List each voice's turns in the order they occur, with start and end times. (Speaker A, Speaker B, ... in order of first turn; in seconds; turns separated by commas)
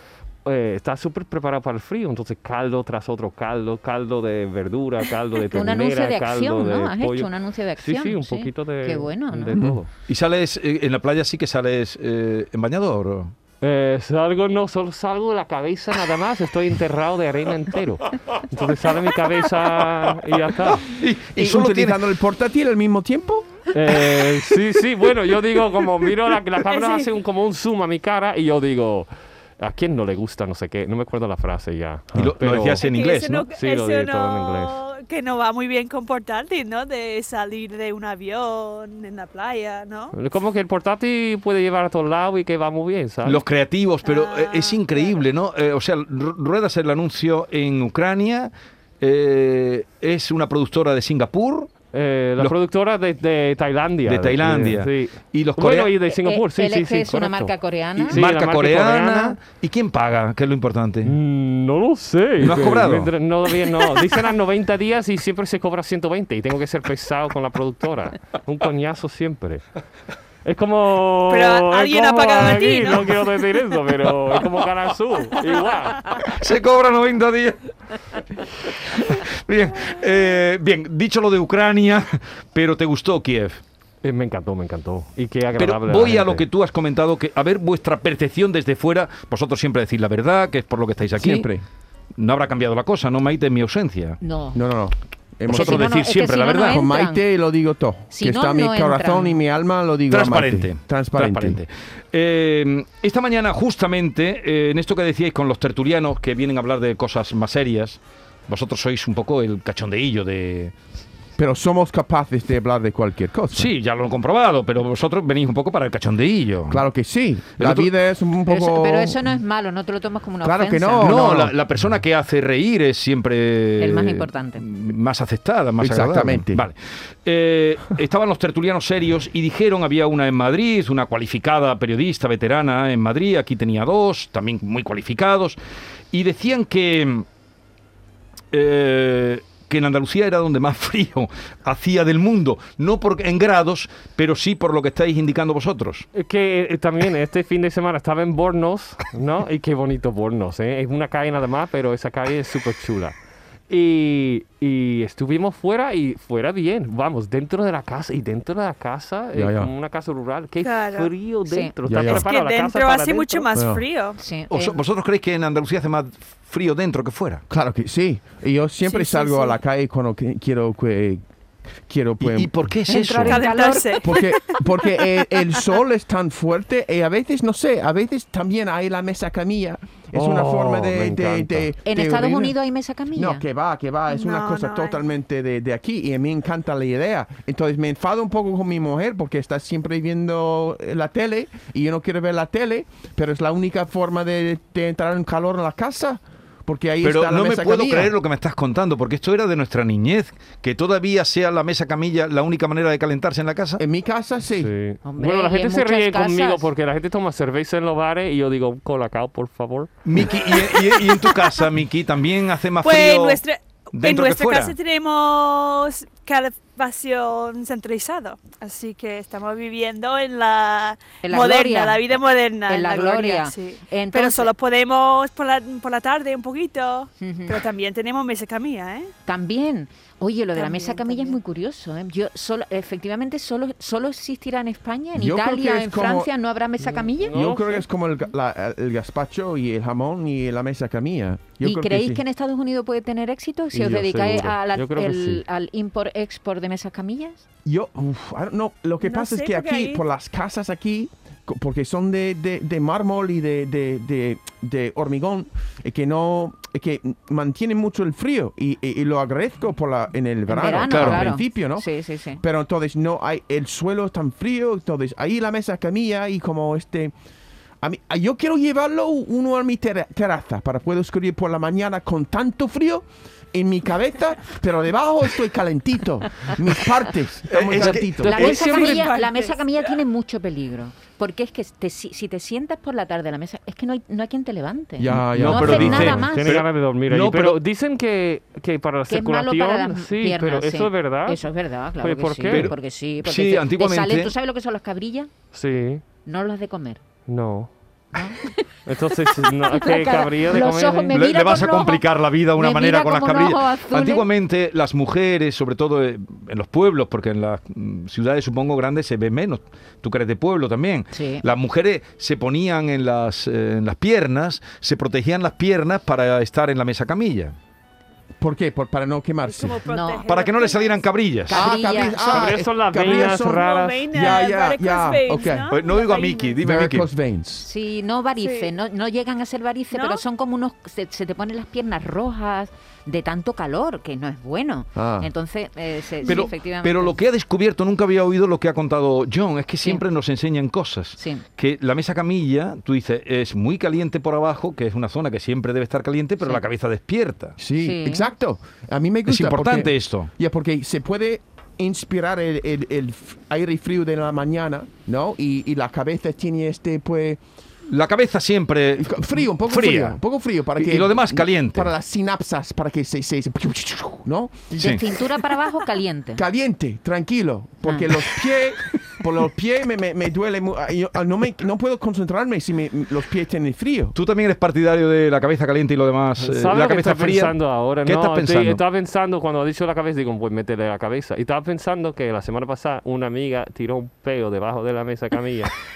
Speaker A: 0.4-9.9, Speaker B: 5.5-9.6, Speaker C: 10.1-13.3, Speaker A: 13.6-20.8, Speaker C: 20.6-22.0, Speaker D: 21.4-23.5, Speaker A: 23.7-29.1, Speaker E: 26.7-27.1, Speaker A: 29.6-32.8, Speaker C: 32.1-33.5, Speaker E: 32.8-40.1, Speaker A: 33.5-34.8, Speaker A: 40.1-43.4, Speaker C: 43.2-51.7, Speaker E: 44.0-45.2, Speaker A: 51.9-57.5, Speaker C: 54.0-55.9, Speaker B: 56.1-58.2, Speaker C: 58.1-61.1, Speaker A: 58.1-59.4, Speaker A: 61.0-69.6, Speaker C: 62.4-63.1, Speaker A: 70.4-76.2, Speaker E: 71.3-73.2, Speaker C: 76.2-77.6, Speaker C: 78.7-83.6, Speaker A: 84.0-86.4, Speaker C: 85.6-91.5, Speaker D: 91.1-91.6, Speaker C: 92.2-94.2, Speaker B: 94.2-94.6, Speaker D: 94.5-95.9, Speaker C: 95.5-96.8, Speaker B: 95.5-97.2, Speaker D: 96.6-101.6, Speaker B: 98.1-99.4, Speaker C: 100.1-110.7, Speaker D: 111.4-113.7, Speaker C: 113.5-116.8, Speaker D: 116.7-119.2, Speaker C: 117.6-117.9, Speaker B: 118.5-121.2, Speaker D: 120.4-121.5, Speaker C: 121.0-135.6, Speaker B: 123.8-124.6, Speaker D: 125.8-126.6, Speaker C: 136.1-137.2, Speaker C: 138.5-146.1, Speaker A: 146.1-153.1, Speaker A: 153.7-163.5, Speaker D: 159.3-159.7, Speaker E: 160.6-161.1, Speaker B: 161.5-161.7, Speaker D: 161.9-162.3, Speaker E: 162.1-164.2, Speaker D: 163.5-163.8, Speaker B: 164.2-164.8, Speaker C: 164.5-167.4, Speaker D: 167.5-171.2, Speaker B: 168.9-169.5, Speaker D: 171.8-172.5, Speaker C: 172.2-173.5, Speaker B: 172.9-174.2, Speaker E: 173.2-174.7, Speaker D: 174.0-182.6, Speaker A: 180.1-181.7, Speaker B: 181.8-183.4, Speaker D: 183.1-198.1, Speaker E: 184.1-185.0, Speaker C: 197.0-203.8, Speaker D: 203.8-204.7, Speaker A: 204.5-209.9, Speaker B: 205.0-206.7, Speaker C: 210.0-213.4, Speaker E: 212.8-229.1, Speaker C: 213.9-214.7, Speaker B: 221.2-224.5, Speaker B: 227.2-227.6, Speaker B: 229.2-237.3, Speaker E: 230.5-231.4, Speaker D: 235.1-236.3, Speaker A: 236.8-237.8, Speaker D: 237.3-242.2, Speaker B: 241.6-247.4, Speaker A: 243.7-245.4, Speaker D: 247.6-261.9, Speaker E: 249.0-250.0, Speaker B: 260.5-262.4, Speaker C: 260.9-261.2, Speaker D: 262.4-267.1, Speaker D: 267.8-278.4, Speaker C: 277.5-279.0, Speaker B: 278.2-286.6, Speaker A: 278.2-279.0, Speaker E: 278.3-279.6, Speaker D: 285.0-286.2, Speaker C: 285.3-287.6, Speaker A: 285.6-291.4, Speaker B: 289.1-295.3, Speaker A: 292.0-292.7, Speaker C: 292.5-294.3, Speaker A: 295.5-296.0, Speaker B: 296.2-297.0, Speaker A: 297.3-297.7, Speaker B: 298.1-298.7, Speaker A: 298.9-301.1, Speaker B: 299.2-304.3, Speaker C: 301.1-317.6, Speaker B: 311.1-311.4, Speaker D: 318.4-319.8, Speaker E: 319.4-321.1, Speaker B: 319.9-320.2, Speaker C: 320.2-321.7, Speaker B: 321.5-322.5, Speaker D: 321.5-325.7, Speaker A: 322.2-324.3, Speaker E: 323.0-326.6, Speaker C: 325.7-327.1, Speaker D: 326.6-327.7, Speaker B: 327.6-337.1, Speaker E: 328.4-328.7, Speaker E: 329.9-330.2, Speaker D: 334.9-335.3, Speaker C: 336.2-347.6, Speaker B: 341.2-341.4, Speaker D: 347.6-357.4, Speaker B: 347.8-348.3, Speaker C: 349.3-350.3, Speaker C: 357.9-360.2, Speaker D: 359.0-365.2, Speaker C: 360.8-361.9, Speaker B: 364.7-366.4, Speaker D: 366.4-374.1, Speaker C: 374.1-378.8, Speaker A: 376.4-385.7